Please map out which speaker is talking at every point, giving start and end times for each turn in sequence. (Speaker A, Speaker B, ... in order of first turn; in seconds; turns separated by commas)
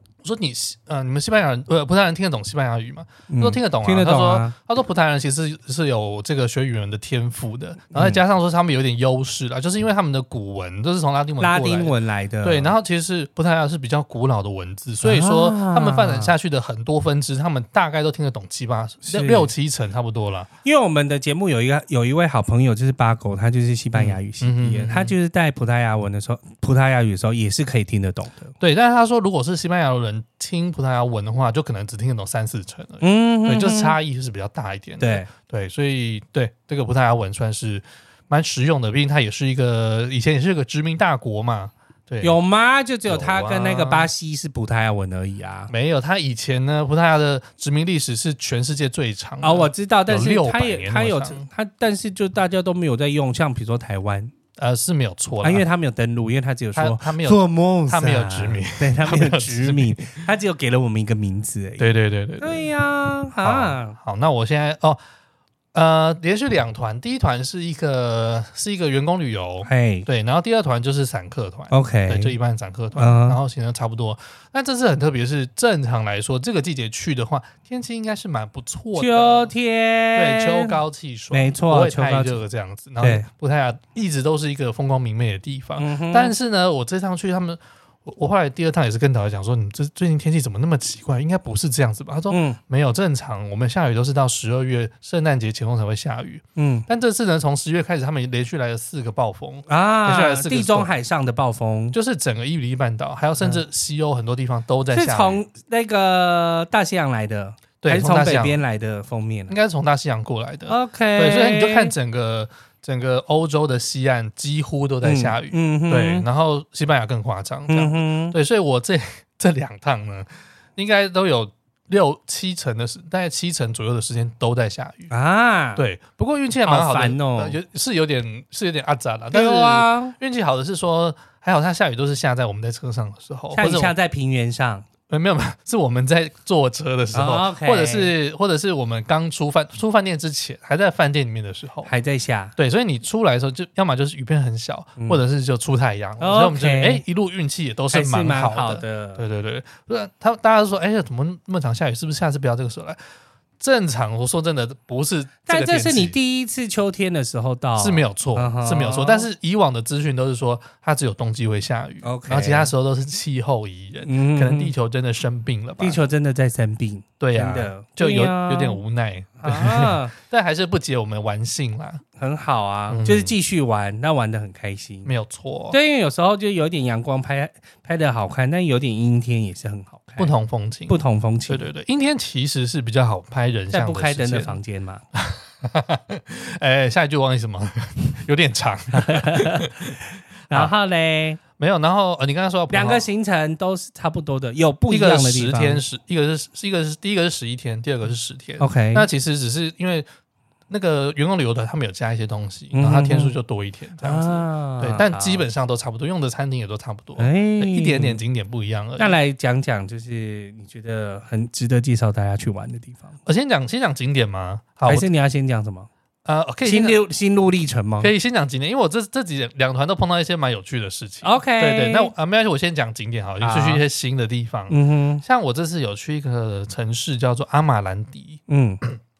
Speaker A: 0.2-20.5, Speaker B: 3.3-4.5, Speaker B: 7.9-8.2, Speaker B: 11.4-12.7, Speaker B: 15.0-16.3, Speaker B: 19.1-19.5, Speaker B: 20.6-28.5, Speaker A: 23.9-25.1, Speaker A: 28.6-42.4, Speaker B: 33.0-34.0, Speaker B: 35.0-35.3, Speaker B: 42.2-45.7, Speaker A: 43.0-44.1, Speaker A: 45.7-51.5, Speaker B: 49.4-54.3, Speaker A: 54.6-55.6, Speaker B: 55.4-61.9, Speaker A: 56.7-60.2, Speaker A: 61.8-62.7, Speaker B: 62.4-64.0, Speaker A: 63.4-65.0, Speaker A: 65.7-79.5, Speaker B: 69.6-70.0, Speaker B: 71.7-72.3, Speaker B: 73.0-73.4, Speaker B: 78.9-80.8, Speaker A: 80.1-100.9, Speaker B: 81.3-82.4, Speaker B: 83.0-83.3, Speaker B: 85.8-86.3, Speaker B: 92.3-92.6, Speaker B: 96.5-96.8, Speaker B: 99.7-102.0, Speaker A: 101.9-105.4, Speaker B: 104.9-109.5, Speaker A: 107.8-108.6, Speaker A: 109.5-125.1, Speaker B: 110.7-111.9, Speaker B: 115.0-116.2, Speaker B: 117.7-118.3, Speaker B: 125.1-125.8, Speaker A: 125.8-133.9, Speaker B: 126.6-127.6, Speaker B: 129.3-130.1, Speaker B: 133.5-134.8, Speaker A: 135.1-141.9, Speaker B: 137.1-138.1, Speaker B: 141.8-142.5, Speaker A: 142.6-153.0, Speaker B: 146.2-147.0, Speaker B: 147.9-149.2, Speaker A: 153.6-156.2, Speaker B: 155.5-159.3, Speaker A: 157.8-166.0, Speaker B: 162.0-162.7, Speaker B: 164.0-164.7, Speaker B: 165.8-168.8, Speaker A: 167.2-172.0, Speaker B: 169.4-170.1, Speaker B: 172.2-175.1, Speaker A: 172.9-173.3, Speaker A: 175.0-175.8, Speaker B: 175.7-180.3, Speaker A: 180.2-181.0, Speaker B: 180.9-181.6, Speaker A: 181.5-184.6, Speaker B: 183.7-185.0, Speaker A: 185.1-190.0, Speaker B: 188.9-191.4, Speaker A: 191.6-193.1, Speaker B: 192.7-195.8, Speaker A: 194.9-200.1, Speaker B: 198.6-199.1, Speaker A: 200.7-209.2, Speaker B: 202.7-203.3, Speaker B: 204.0-205.4, Speaker B: 207.2-208.2, Speaker B: 209.0-213.2, Speaker A: 213.2-215.1, Speaker B: 214.8-215.9, Speaker A: 216.2-217.0, Speaker B: 216.6-218.1, Speaker A: 218.0-229.0, Speaker B: 221.2-222.1, Speaker B: 223.4-223.8, Speaker B: 224.7-225.2, Speaker B: 228.5-228.8